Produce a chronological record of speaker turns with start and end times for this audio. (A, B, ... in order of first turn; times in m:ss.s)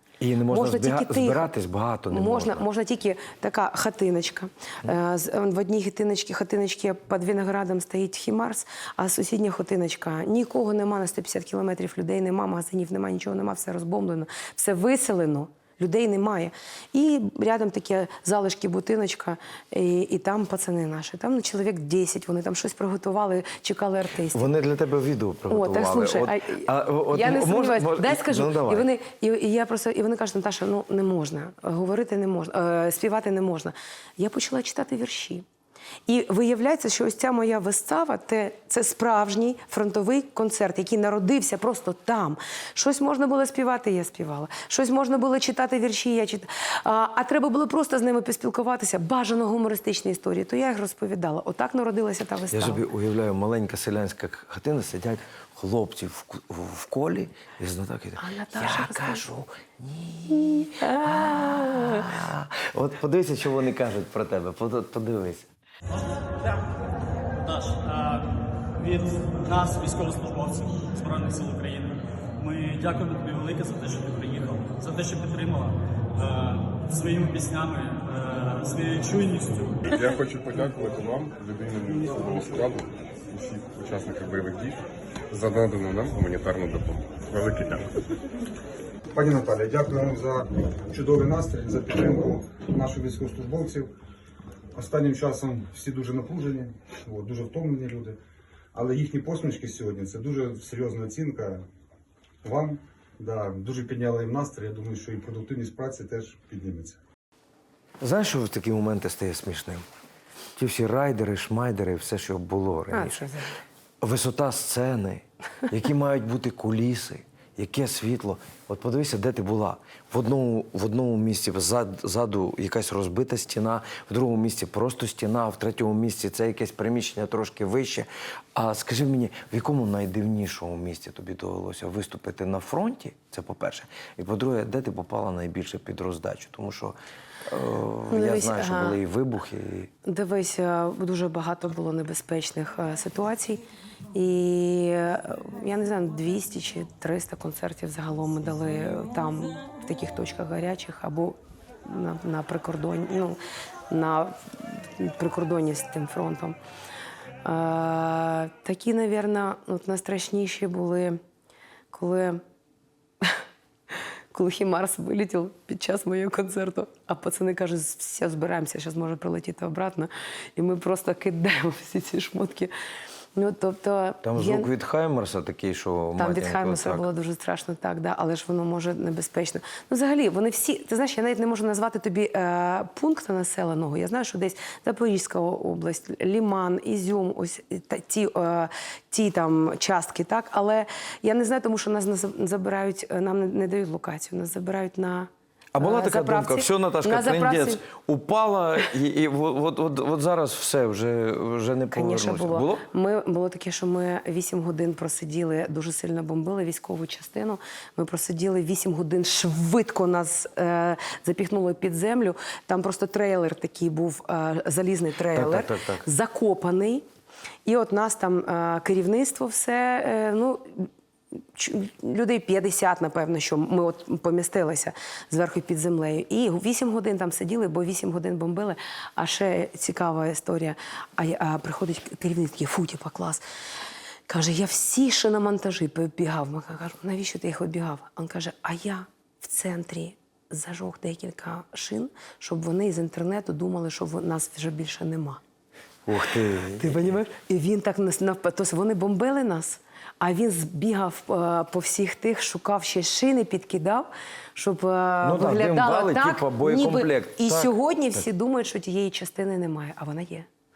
0:00.2-0:02.6 A
0:00.5-0:01.5 B
0:02.1-0:24.4 B
0:24.3-0:28.9 A
0:25.5-0:35.4 B
0:36.0-0:52.8 B
0:52.5-1:05.5 A
0:58.2-0:59.3 B
1:00.8-1:02.1 B
1:06.4-1:06.6 C
1:07.4-1:19.9 C
1:19.9-1:27.9 D
1:29.1-1:33.9 E
1:34.7-1:38.2 E
1:38.7-1:41.6 E
1:42.4-1:47.0 E
1:48.0-1:49.8 A
1:50.6-1:53.3 A
1:52.9-1:53.6 B
1:54.0-2:19.9 A
2:18.1-2:19.0 B
2:20.0-2:36.6 B
2:37.4-2:41.2 B
2:41.9-2:42.4 B
2:43.9-2:52.7 B
2:53.3-2:54.7 B
2:54.2-2:57.0 A
2:56.2-3:17.8 B
3:15.7-3:22.8 A
3:21.9-3:37.0 B
3:35.3-3:36.0 A
3:37.6-3:40.9 B
3:41.4-3:53.4 B
3:54.3-4:05.4 B
4:06.0-4:07.1 A
4:06.8-4:20.5 B
4:15.2-4:18.2 A